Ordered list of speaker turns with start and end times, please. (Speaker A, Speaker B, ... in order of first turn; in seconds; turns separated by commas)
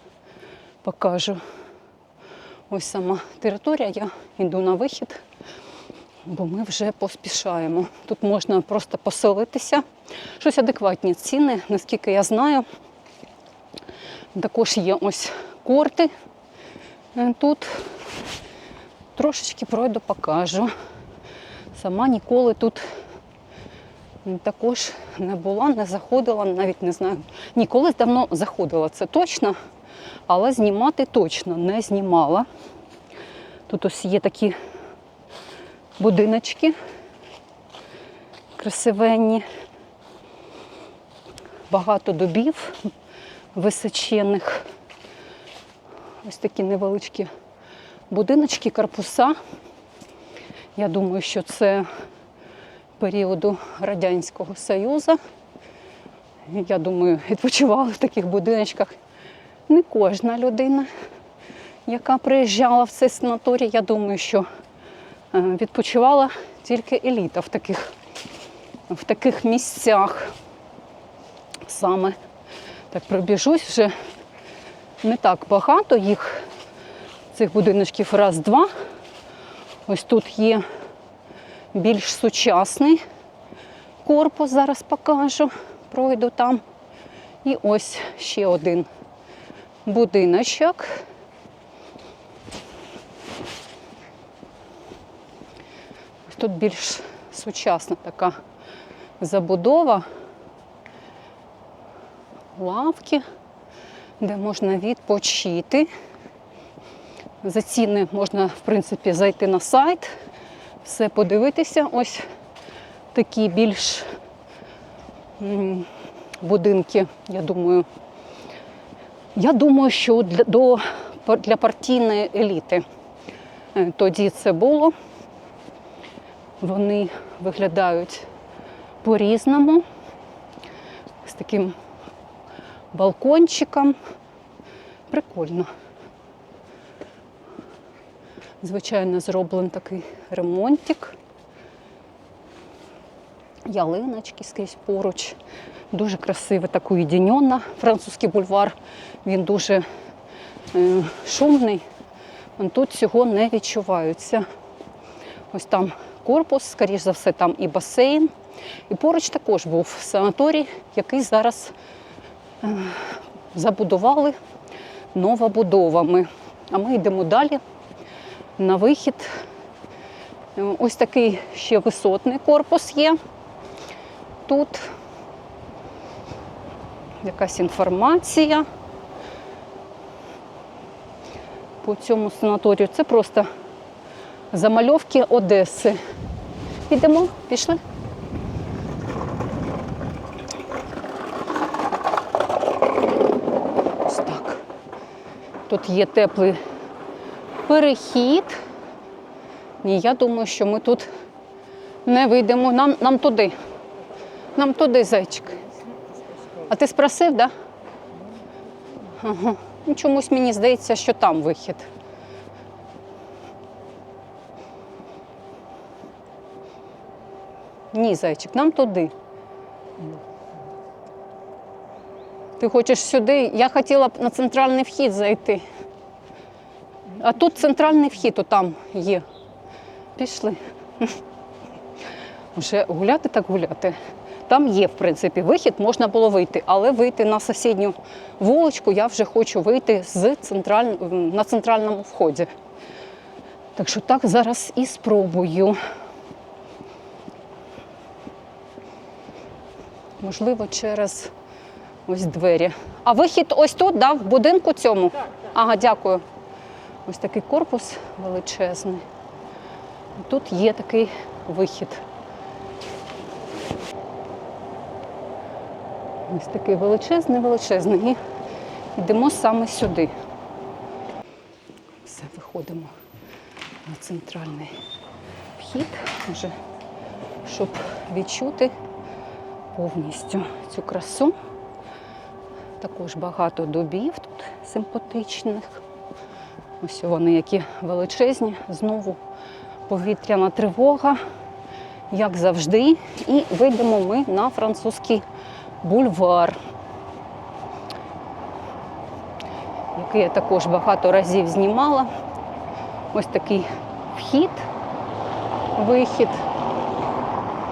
Speaker A: 0.8-1.4, Speaker A: 2.7-5.2, Speaker A: 6.2-9.8, Speaker A: 10.4-12.7, Speaker A: 14.3-16.1, Speaker A: 17.1-17.9, Speaker A: 19.1-20.7, Speaker A: 21.7-22.9, Speaker A: 24.2-29.6, Speaker A: 30.3-32.5, Speaker A: 33.7-34.6, Speaker A: 36.0-36.8, Speaker A: 38.6-39.5, Speaker A: 41.7-42.9, Speaker A: 43.5-44.7, Speaker A: 46.2-47.3, Speaker A: 48.1-49.4, Speaker A: 50.8-51.9, Speaker A: 53.0-55.2, Speaker A: 56.5-59.0, Speaker A: 59.7-60.9, Speaker A: 61.9-64.5, Speaker A: 65.3-67.9, Speaker A: 68.9-70.3, Speaker A: 71.6-72.2, Speaker A: 72.9-74.0, Speaker A: 75.0-76.5, Speaker A: 77.3-78.7, Speaker A: 79.9-80.6, Speaker A: 81.7-83.0, Speaker A: 84.0-86.6, Speaker A: 87.4-88.9, Speaker A: 89.8-91.0, Speaker A: 96.2-98.4, Speaker A: 99.2-100.0, Speaker A: 102.5-103.2, Speaker A: 104.2-105.9, Speaker A: 107.4-110.1, Speaker A: 110.8-112.3, Speaker A: 113.1-114.1, Speaker A: 115.4-115.9, Speaker A: 116.4-117.9, Speaker A: 119.3-122.8, Speaker A: 123.7-124.9, Speaker A: 126.6-128.3, Speaker A: 129.0-129.8, Speaker A: 131.2-131.8, Speaker A: 132.9-134.0, Speaker A: 135.1-135.7, Speaker A: 138.6-141.2, Speaker A: 143.7-145.4, Speaker A: 145.9-149.8, Speaker A: 150.7-151.8, Speaker A: 152.6-154.4, Speaker A: 155.5-158.3, Speaker A: 158.9-161.7, Speaker A: 162.6-164.4, Speaker A: 165.1-167.6, Speaker A: 168.6-169.4, Speaker A: 170.5-173.2, Speaker A: 174.5-174.9, Speaker A: 177.2-178.7, Speaker A: 181.8-183.5, Speaker A: 184.5-186.0, Speaker A: 186.9-187.8, Speaker A: 194.1-194.6, Speaker A: 195.7-196.6, Speaker A: 197.7-198.6, Speaker A: 199.8-201.1, Speaker A: 202.0-203.6, Speaker A: 204.6-205.6, Speaker A: 206.7-207.5, Speaker A: 209.1-211.9, Speaker A: 217.9-219.1, Speaker A: 222.6-225.6, Speaker A: 227.1-229.2, Speaker A: 230.2-231.1, Speaker A: 232.5-242.5, Speaker A: 243.8-245.8, Speaker A: 250.2-251.3, Speaker A: 252.1-256.2, Speaker A: 257.1-259.0, Speaker A: 260.2-262.0, Speaker A: 266.3-268.2, Speaker A: 268.9-270.1, Speaker A: 272.0-272.9, Speaker A: 273.8-274.8, Speaker A: 275.6-276.6, Speaker A: 277.4-278.7, Speaker A: 279.7-281.3, Speaker A: 282.8-285.8, Speaker A: 286.8-289.2, Speaker A: 289.9-291.2, Speaker A: 292.1-295.2, Speaker A: 295.8-296.6, Speaker A: 299.9-302.1, Speaker A: 303.1-304.7, Speaker A: 305.8-306.4